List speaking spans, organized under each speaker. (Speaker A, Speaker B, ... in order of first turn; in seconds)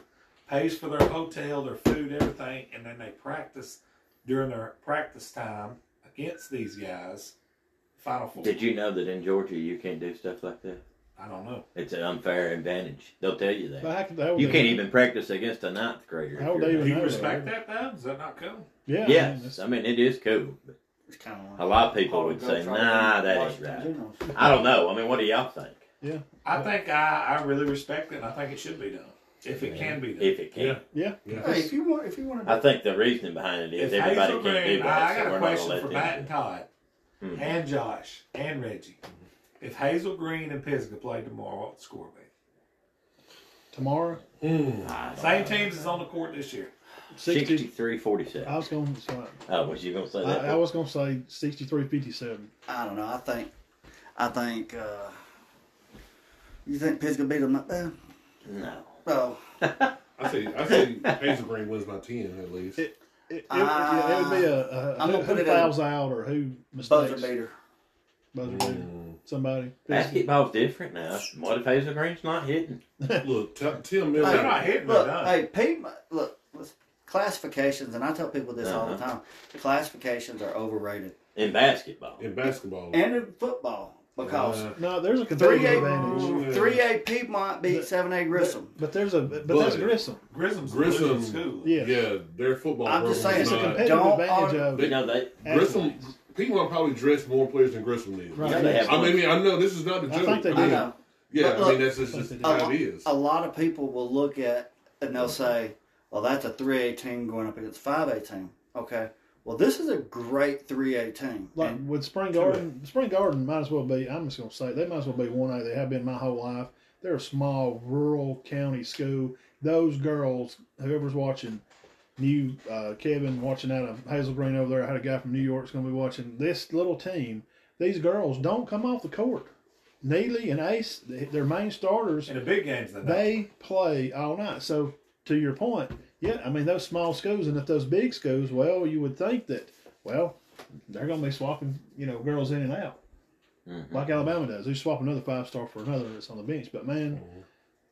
Speaker A: 0.5-7.3, 8.0-8.5, 11.2-11.7, 16.7-18.7, 26.4-30.3, 33.8-36.7, 37.3-39.0, 39.6-42.3, 45.1-46.7, 74.2-75.4, 90.3-91.7, 112.3-112.7, 132.2-133.4
Speaker B: 8.4-10.8, 11.7-17.1, 19.0-20.7, 21.6-25.8, 29.6-30.8, 32.4-36.3, 37.2-37.5, 44.8-45.8, 47.2-48.6, 49.5-50.6, 58.5-58.9, 59.6-59.9, 61.0-61.4, 69.9-72.8, 78.6-79.0, 81.3-82.2, 94.7-95.3, 98.4-99.3, 143.7-144.1
Speaker C: 13.8-14.9, 16.3-17.5, 18.9-19.6, 26.0-26.7, 30.9-31.7, 43.7-44.2, 47.1-47.7, 48.4-49.4, 50.2-52.5, 62.8-67.3, 68.3-70.2, 73.0-73.3, 84.7-86.5, 87.6-90.2, 91.6-92.0, 93.2-96.1, 98.3-99.0, 100.1-100.9, 102.1-102.7, 111.5-121.6, 122.2-132.3, 133.0-140.3, 140.9-143.0, 143.9-147.2
Speaker D: 21.1-24.5, 31.3-32.7, 52.7-53.5, 54.2-55.1, 56.6-57.9, 59.0-59.4, 63.5-65.8, 66.8-67.5, 74.2-81.2, 82.9-84.7, 85.3-88.8, 92.8-94.7, 98.4-99.1, 100.5-111.8
Speaker E: 30.5-31.6, 44.4-44.9, 60.2-62.8, 68.4-69.2, 73.2-74.7, 82.2-83.0, 84.2-84.8, 85.5-86.8, 89.3-90.0, 90.6-94.0, 94.7-103.1, 147.1-147.4